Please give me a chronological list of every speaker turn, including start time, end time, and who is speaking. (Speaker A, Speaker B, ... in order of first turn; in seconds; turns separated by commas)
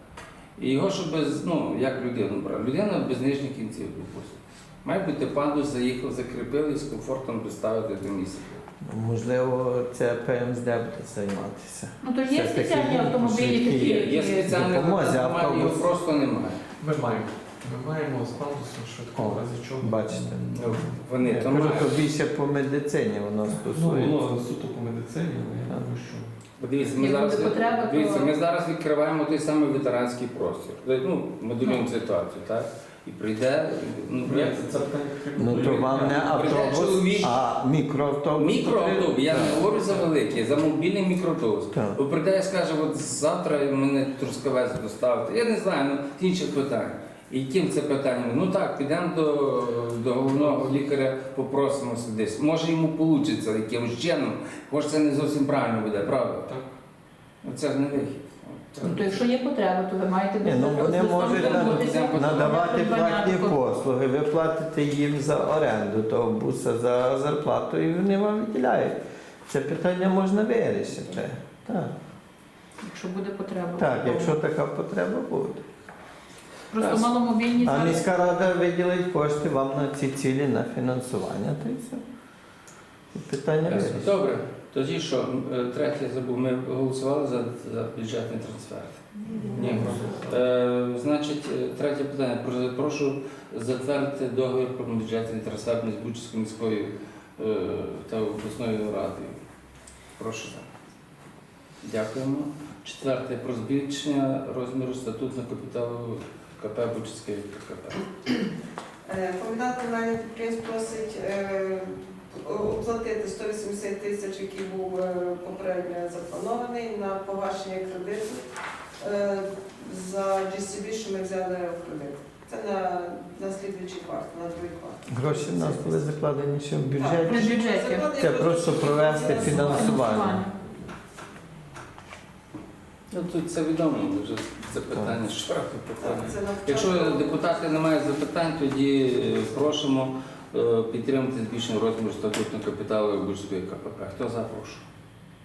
Speaker A: 0.6-8.6, Speaker B: 8.9-15.9, Speaker C: 12.0-14.5, Speaker A: 13.7-16.6, Speaker D: 16.8-21.0, Speaker B: 19.1-20.4, Speaker A: 20.6-22.0, Speaker B: 21.2-24.2, Speaker D: 23.5-26.3, Speaker A: 26.6-34.6, Speaker C: 27.0-28.3, Speaker D: 34.2-36.6, Speaker B: 35.4-39.7, Speaker A: 36.2-37.4, Speaker A: 38.4-56.5, Speaker B: 41.7-42.0, Speaker D: 56.5-56.8, Speaker A: 57.4-59.2, Speaker C: 58.8-63.5, Speaker B: 60.4-71.9, Speaker A: 61.1-62.7, Speaker C: 72.8-74.3, Speaker B: 73.8-75.6, Speaker C: 76.7-78.0, Speaker A: 76.8-77.2, Speaker B: 77.6-82.0, Speaker B: 83.1-84.1, Speaker A: 83.7-99.4, Speaker D: 89.6-90.1, Speaker A: 100.2-100.7, Speaker A: 101.8-108.0, Speaker E: 109.1-118.4, Speaker E: 119.0-125.0, Speaker B: 125.1-127.6, Speaker E: 127.0-129.9, Speaker C: 127.2-128.2, Speaker B: 128.2-130.4, Speaker C: 129.4-130.5, Speaker A: 133.1-144.8, Speaker E: 136.0-137.4